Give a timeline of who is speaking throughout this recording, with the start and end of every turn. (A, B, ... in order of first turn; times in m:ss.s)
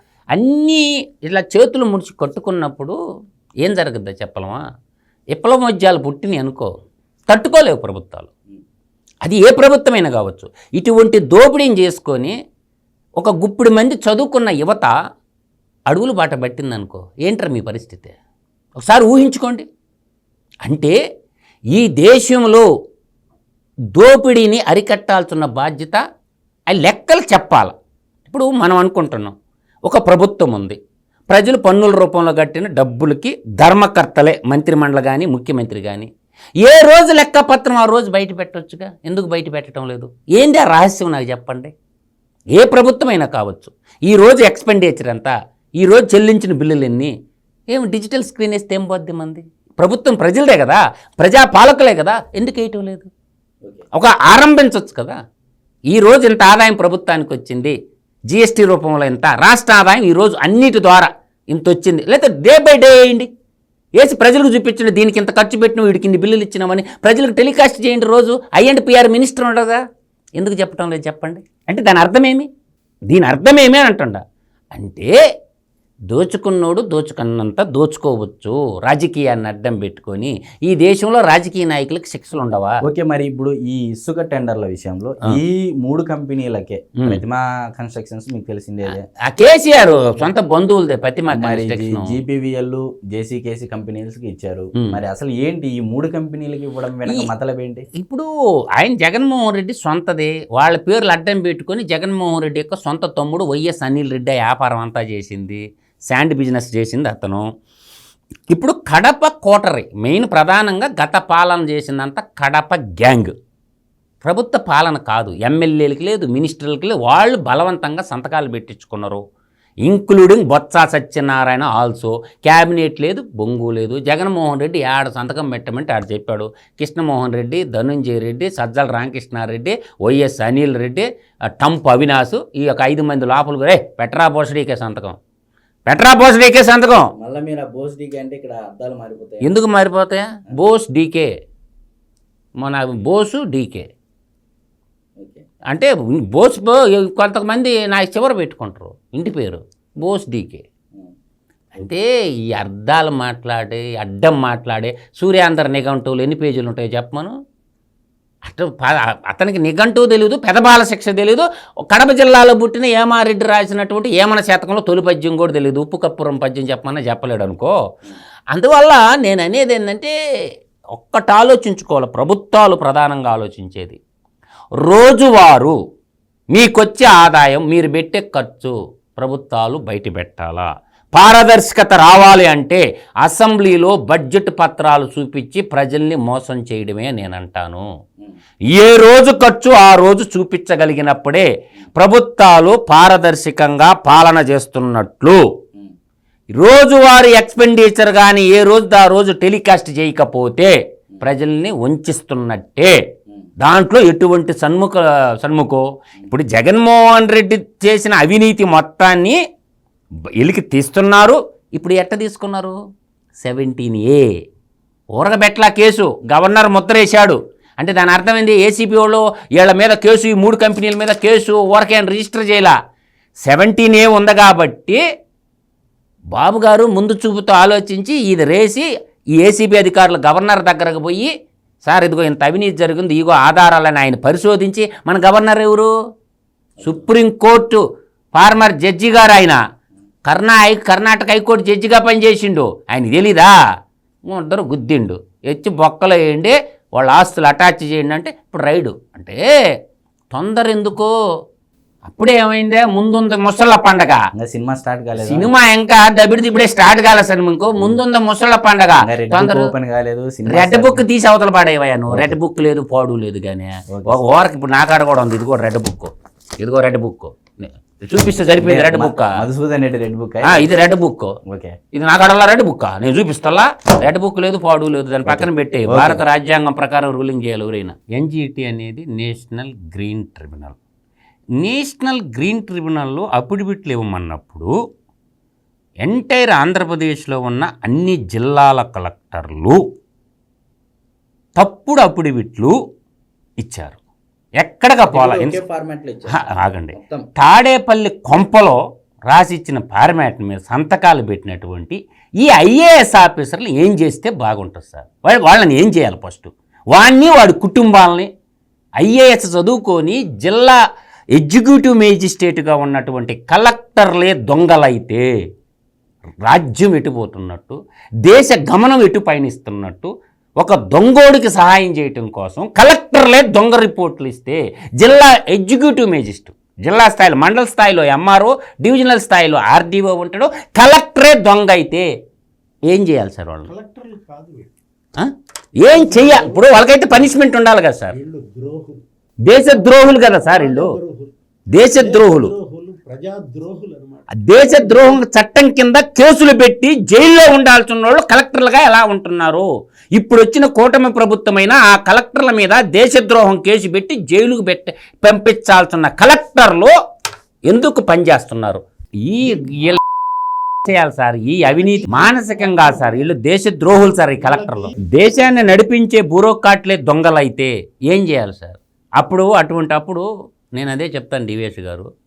0:00.4-0:03.0 A
0:03.6-0:04.6 A
0:05.4-0:06.7 A
0:07.3-0:08.3 A
0:09.2-0:12.3 A
0:13.2-0:14.9 A
0:15.9-0:18.1 A
0:18.8-0:19.6 A
0:20.6-0:20.9 A
0:21.7-0:22.6 A
0:24.0-0:26.0 A
0:26.7-0:27.7 A
0:28.3-0:29.3 A
0:29.9-0:30.8 A
0:31.3-0:36.1 A
0:36.6-0:41.7 A
0:42.6-0:47.1 A
0:47.7-0:53.1 A
0:54.0-0:55.2 A
0:55.9-0:57.7 A
0:58.3-1:03.3 A
1:04.0-1:09.8 A
1:10.4-1:12.5 A
1:13.1-1:14.2 A
1:14.7-1:15.1 A
1:16.1-1:22.7 A
1:22.8-1:29.0 B
1:29.3-1:32.1 A
1:29.9-1:30.3 B
1:31.3-1:37.9 B
1:38.0-1:38.3 A
1:38.8-1:47.4 A
1:48.5-1:53.3 A
1:54.2-1:59.2 A
1:59.8-2:11.0 A
2:11.6-2:15.2 A
2:15.9-2:17.1 A
2:17.2-2:19.5 B
2:19.5-2:21.3 A
2:22.6-2:23.9 A
2:25.7-2:30.6 A
2:31.7-2:32.0 A
2:32.6-2:37.3 A
2:38.4-2:47.7 A
2:48.5-2:50.1 A
2:50.9-2:54.0 A
2:54.8-2:55.7 A
2:56.5-3:07.8 A
3:08.7-3:15.4 A
3:16.6-3:20.7 A
3:21.3-3:23.0 A
3:23.6-3:29.4 A
3:30.4-3:32.7 A
3:33.4-3:34.2 A
3:35.2-3:42.7 A
3:43.4-3:45.0 A
3:46.3-3:48.8 A
3:49.4-3:51.3 A
3:51.8-3:55.9 A
3:56.9-3:57.8 A
3:58.3-3:59.6 A
4:00.3-4:03.5 A
4:04.3-4:09.4 A
4:10.3-4:11.1 A
4:12.1-4:14.2 A
4:14.4-4:15.5 B
4:15.2-4:19.5 A
4:17.8-4:18.0 B
4:19.0-4:21.0 B
4:20.5-4:29.3 A
4:22.1-4:22.4 B
4:23.9-4:24.2 B
4:28.5-4:30.7 B
4:30.5-4:31.3 A
4:31.5-4:31.7 B
4:31.9-4:40.8 A
4:35.2-4:36.2 B
4:41.6-4:44.7 A
4:46.0-4:49.8 A
4:51.6-4:52.7 A
4:53.6-4:54.0 A
4:54.6-4:55.6 A
4:55.1-4:57.2 B
4:56.4-4:58.8 A
4:59.3-5:08.3 A
5:09.0-5:10.8 A
5:11.4-5:15.2 A
5:16.4-5:20.1 A
5:20.6-5:32.0 A
5:32.9-5:33.7 A
5:33.7-5:34.7 C
5:35.8-5:36.6 C
5:35.8-5:38.1 A
5:38.1-5:39.0 C
5:39.5-5:40.9 A
5:40.2-5:41.3 C
5:41.8-5:42.5 A
5:42.0-5:45.2 C
5:44.3-5:49.6 A
5:50.2-5:56.9 A
5:57.7-6:00.0 A
6:00.8-6:10.2 A
6:01.8-6:03.2 C
6:04.4-6:05.0 C
6:10.8-6:12.0 A